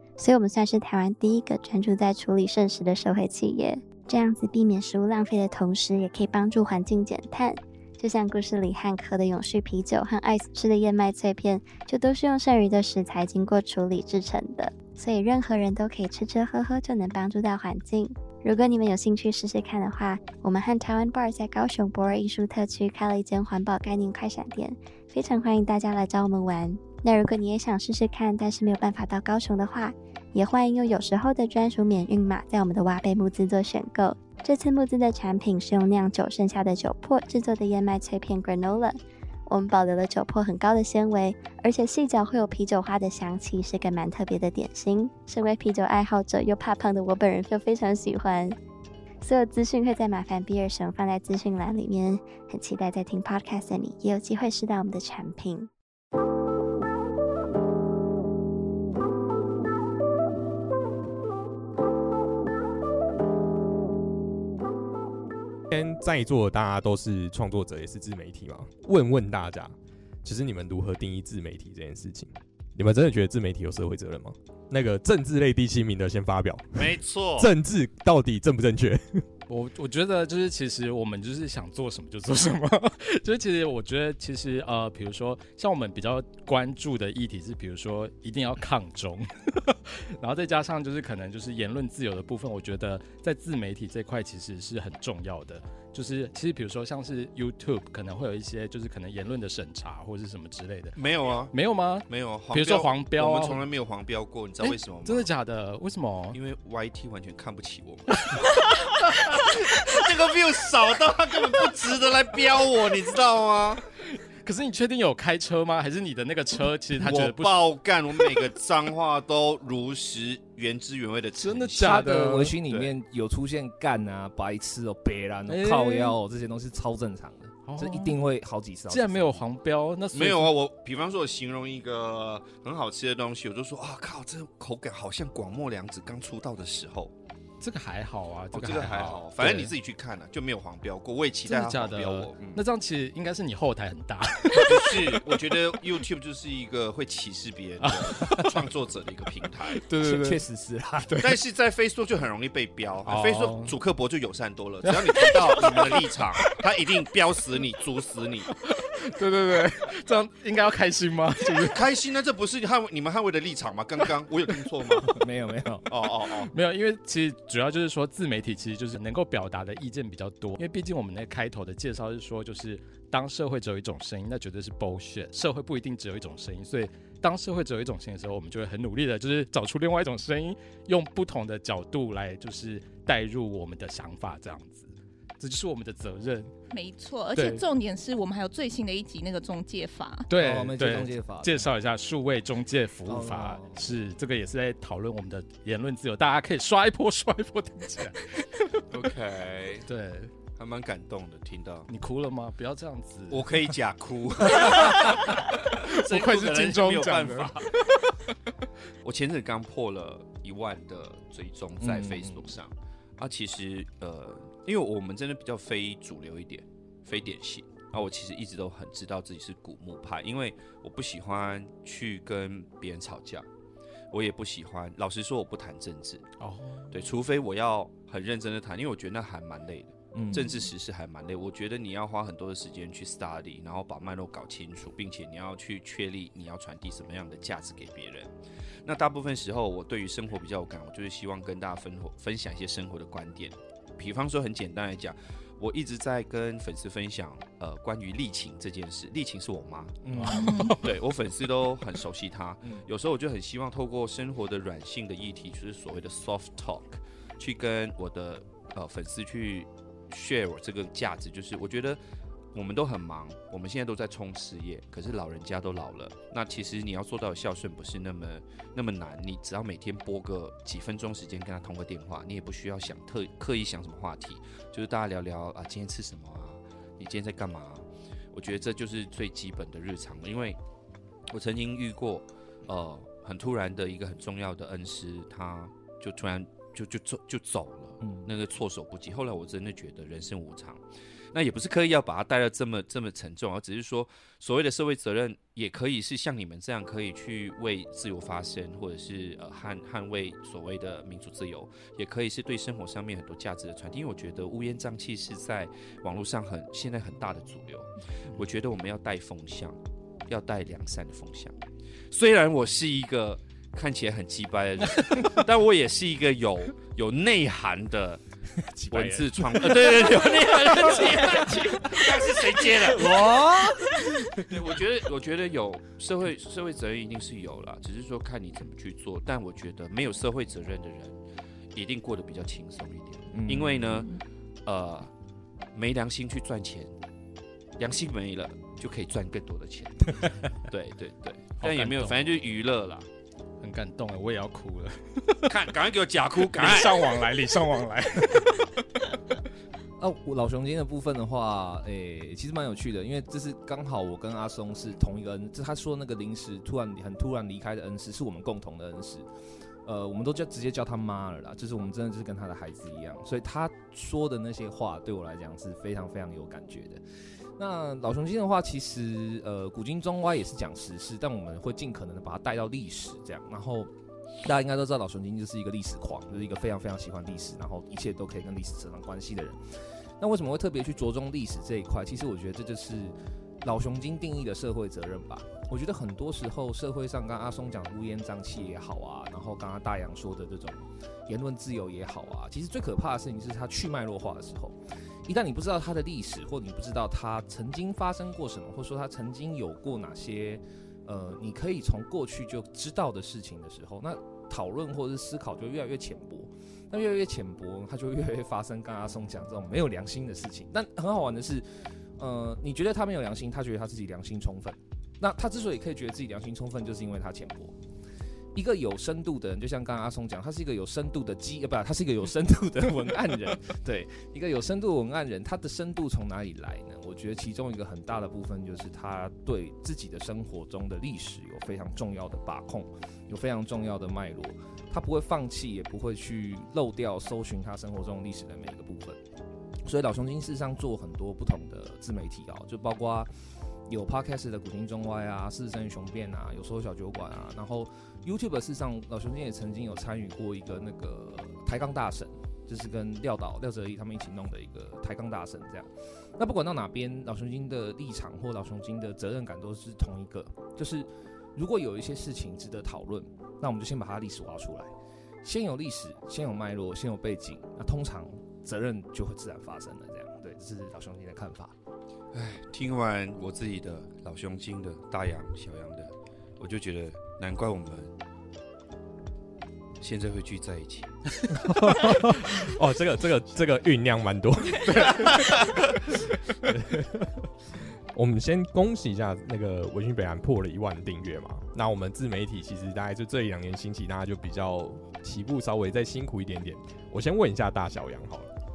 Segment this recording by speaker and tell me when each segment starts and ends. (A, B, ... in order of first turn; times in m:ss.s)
0:00.2-0:48.6 A
0:49.2-0:55.7 A
1:05.7-1:19.2 B
1:16.7-1:17.5 C
1:19.5-1:41.0 D
1:40.9-1:41.5 C
1:41.5-1:43.7 D
1:42.0-1:45.3 C
1:44.6-1:46.4 D
1:46.3-1:53.8 C
1:54.4-1:57.7 D
1:57.0-2:02.1 C
2:01.4-2:02.5 D
2:01.8-2:09.4 E
2:02.6-2:02.9 C
2:05.5-2:06.1 D
2:07.6-2:08.2 D
2:08.9-2:10.5 D
2:10.1-2:17.1 C
2:17.6-2:19.7 D
2:18.5-2:22.6 C
2:21.5-2:25.2 D
2:24.6-2:29.8 C
2:27.8-2:28.5 D
2:29.7-2:30.4 D
2:30.0-2:31.1 E
2:31.0-2:31.3 D
2:31.2-2:38.5 C
2:33.0-2:33.7 D
2:34.8-2:35.3 D
2:38.6-2:41.8 D
2:41.5-2:45.2 C
2:45.1-2:45.9 E
2:45.9-2:46.5 C
2:46.5-3:06.5 D
3:06.7-3:10.3 F
3:07.3-3:07.6 D
3:10.3-3:18.8 D
3:10.4-3:11.7 E
3:13.1-3:13.7 E
3:18.9-3:19.8 C
3:19.9-3:20.3 D
3:20.6-3:21.9 C
3:21.9-3:23.6 D
3:23.3-3:27.7 C
3:24.8-3:28.3 D
3:29.0-3:43.5 C
3:31.8-3:32.5 D
3:44.1-3:46.2 C
3:46.4-3:46.9 D
3:46.9-3:58.3 C
3:50.1-3:50.6 E
3:58.8-4:10.0 C
4:10.0-4:10.4 E
4:10.1-4:10.9 D
4:10.4-4:10.7 F
4:10.8-4:22.0 C
4:22.5-4:40.6 C
4:41.3-5:11.6 C
4:48.0-4:48.3 E
5:12.1-5:18.2 C
5:15.0-5:15.3 D
5:18.8-5:20.2 D
5:18.9-5:19.7 E
5:18.9-5:31.2 C
5:20.8-5:21.4 E
5:21.4-5:21.7 D
5:31.7-5:34.1 C
5:33.3-5:33.9 E
5:34.6-5:35.1 C
5:35.7-5:36.9 C
5:37.8-5:43.1 C
5:41.6-5:42.2 D
5:43.6-5:45.5 D
5:45.5-5:47.1 C
5:46.5-5:48.7 D
5:50.0-5:59.3 E
5:59.8-6:07.0 E
6:07.6-6:13.9 E
6:14.4-6:57.8 E
6:58.5-7:19.2 E
7:19.8-7:23.3 E
7:23.9-7:44.9 E
7:45.4-7:51.7 E
7:52.3-7:58.1 C
8:00.0-8:01.1 C
8:01.6-8:05.2 B
8:04.9-8:05.9 C
8:06.6-8:07.3 B
8:08.1-8:18.5 B